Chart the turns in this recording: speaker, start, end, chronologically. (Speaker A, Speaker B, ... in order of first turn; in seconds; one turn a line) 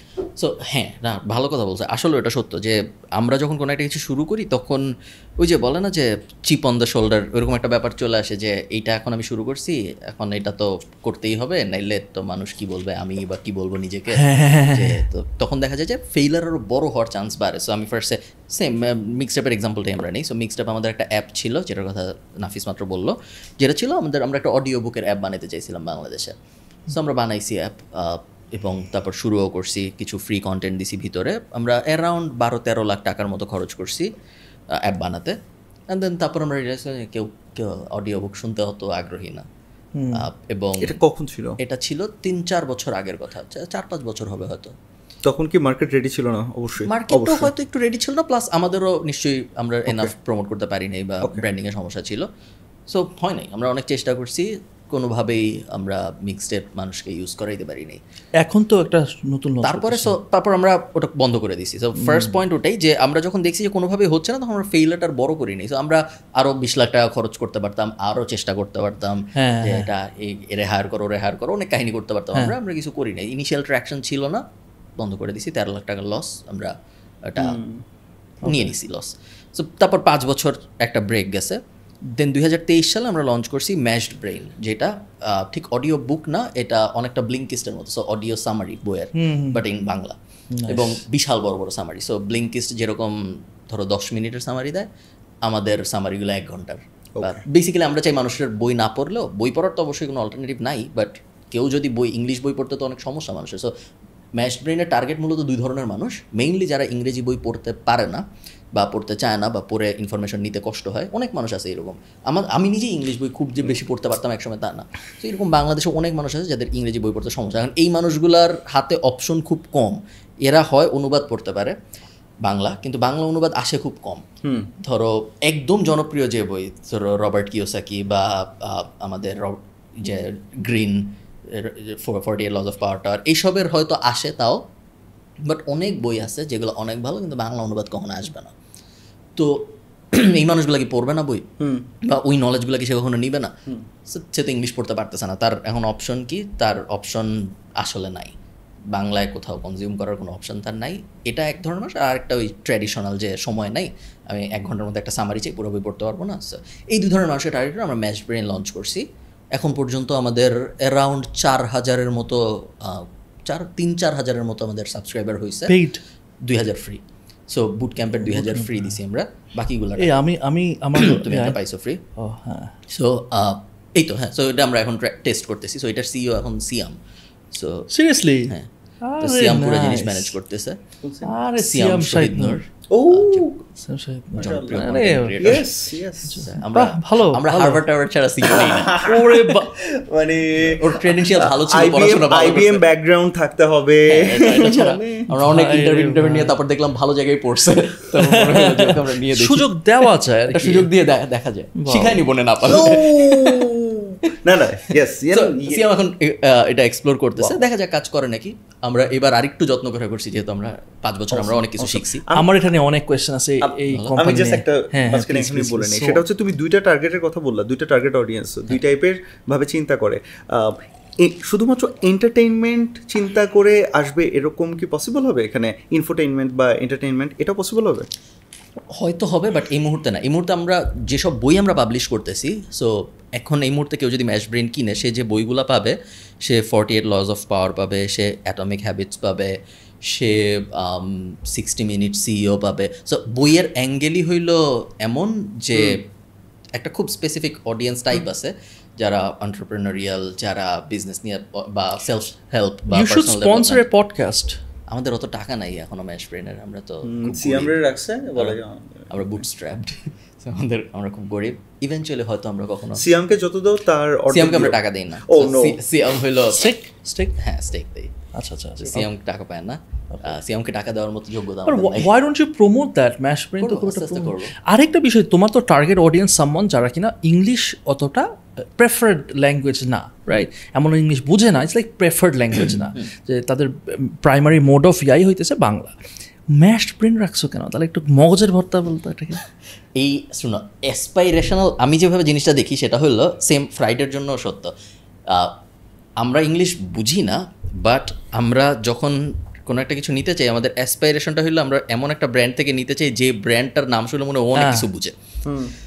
Speaker A: 0.4-4.8
Speaker A: 5.4-26.3
Speaker B: 14.2-15.0
Speaker A: 26.9-34.1
Speaker A: 34.8-35.3
Speaker A: 35.9-39.4
Speaker B: 40.0-40.2
Speaker A: 40.1-41.0
Speaker C: 40.8-41.6
Speaker A: 41.6-44.7
Speaker C: 45.2-47.5
Speaker A: 46.9-52.2
Speaker C: 49.9-50.1
Speaker A: 52.9-58.0
Speaker B: 58.4-60.1
Speaker A: 59.6-74.4
Speaker B: 62.0-62.4
Speaker B: 69.3-69.9
Speaker A: 75.0-76.7
Speaker A: 77.3-77.6
Speaker C: 77.4-77.8
Speaker B: 78.4-78.7
Speaker A: 78.4-81.6
Speaker A: 82.1-90.1
Speaker B: 89.2-89.6
Speaker B: 90.5-91.0
Speaker A: 90.7-93.1
Speaker A: 93.7-94.9
Speaker A: 95.5-103.7
Speaker C: 97.2-97.4
Speaker A: 104.4-108.2
Speaker A: 108.7-121.7
Speaker A: 122.4-124.2
Speaker C: 124.4-124.7
Speaker A: 124.8-134.6
Speaker A: 135.4-138.5
Speaker A: 139.3-141.4
Speaker C: 141.6-141.9
Speaker A: 142.0-143.5
Speaker A: 144.1-148.3
Speaker A: 148.9-159.0
Speaker A: 159.5-165.8
Speaker B: 165.7-166.0
Speaker A: 166.4-170.2
Speaker B: 168.2-168.9
Speaker B: 170.0-171.6
Speaker A: 171.0-172.0
Speaker B: 172.2-172.7
Speaker A: 172.9-176.9
Speaker A: 177.5-177.9
Speaker B: 177.9-178.5
Speaker B: 179.0-180.3
Speaker A: 179.2-180.8
Speaker C: 181.0-181.3
Speaker B: 181.2-182.6
Speaker A: 181.6-183.5
Speaker C: 182.9-183.6
Speaker B: 183.8-185.6
Speaker C: 184.4-186.4
Speaker A: 184.4-185.6
Speaker B: 186.3-187.8
Speaker A: 186.4-189.1
Speaker C: 188.6-195.2
Speaker B: 189.0-189.8
Speaker A: 190.6-192.8
Speaker A: 194.1-199.7
Speaker B: 195.3-196.5
Speaker B: 198.2-200.9
Speaker A: 200.5-203.7
Speaker B: 201.8-202.2
Speaker C: 202.6-205.9
Speaker A: 205.3-212.2
Speaker C: 211.3-212.6
Speaker B: 212.3-216.2
Speaker C: 213.6-228.1
Speaker A: 229.0-239.5
Speaker A: 240.1-246.0
Speaker A: 246.8-253.8
Speaker B: 252.9-254.6
Speaker A: 254.9-257.8
Speaker C: 257.0-259.2
Speaker A: 259.1-263.0
Speaker C: 263.0-264.7
Speaker A: 264.3-266.7
Speaker C: 265.2-265.8
Speaker B: 266.5-267.4
Speaker A: 267.4-268.1
Speaker B: 268.3-269.0
Speaker A: 268.8-272.1
Speaker B: 271.7-285.9
Speaker A: 273.6-274.5
Speaker B: 286.5-289.4
Speaker A: 290.0-294.7
Speaker A: 296.2-305.1
Speaker B: 304.5-304.9
Speaker C: 305.4-305.7